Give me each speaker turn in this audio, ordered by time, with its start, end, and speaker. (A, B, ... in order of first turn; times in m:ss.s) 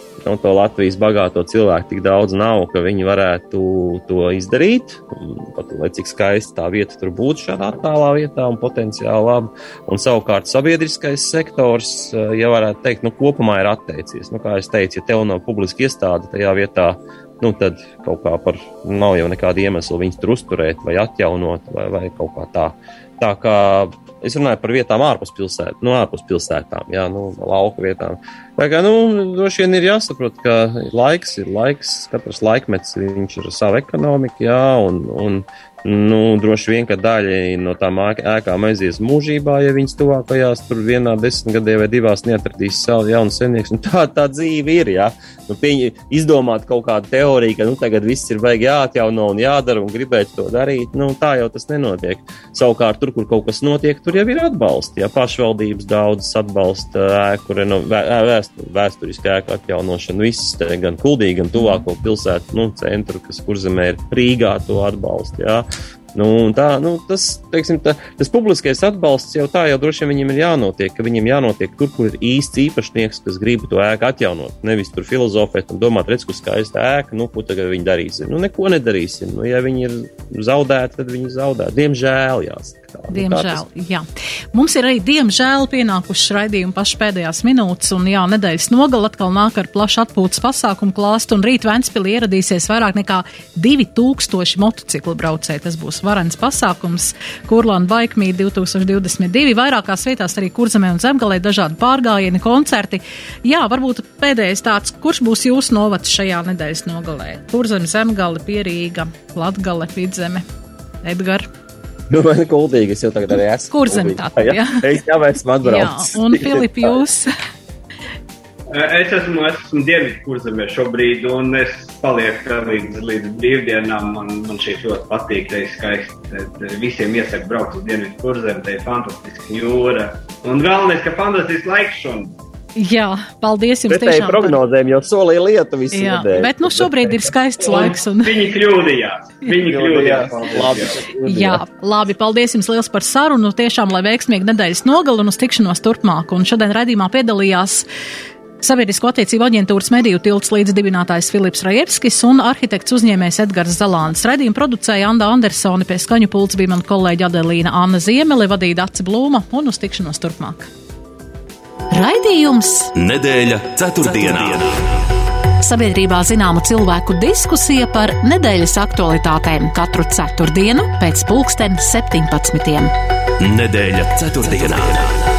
0:00.2-1:23.6 A
1:23.1-1:50.4 B
1:51.0-1:51.4 B
1:52.1-1:57.0 A
1:53.7-1:54.8 B
1:55.6-1:57.3 B
1:58.7-2:12.3 C
2:12.8-2:14.6 B
2:13.9-2:17.2 A
2:15.9-2:18.3 B
2:17.7-2:21.1 C
2:19.5-2:21.6 A
2:21.2-2:27.8 B
2:28.6-2:40.7 B
2:41.9-2:42.9 B
2:42.9-2:44.8 D
2:45.6-2:52.9 B
2:53.4-2:55.2 D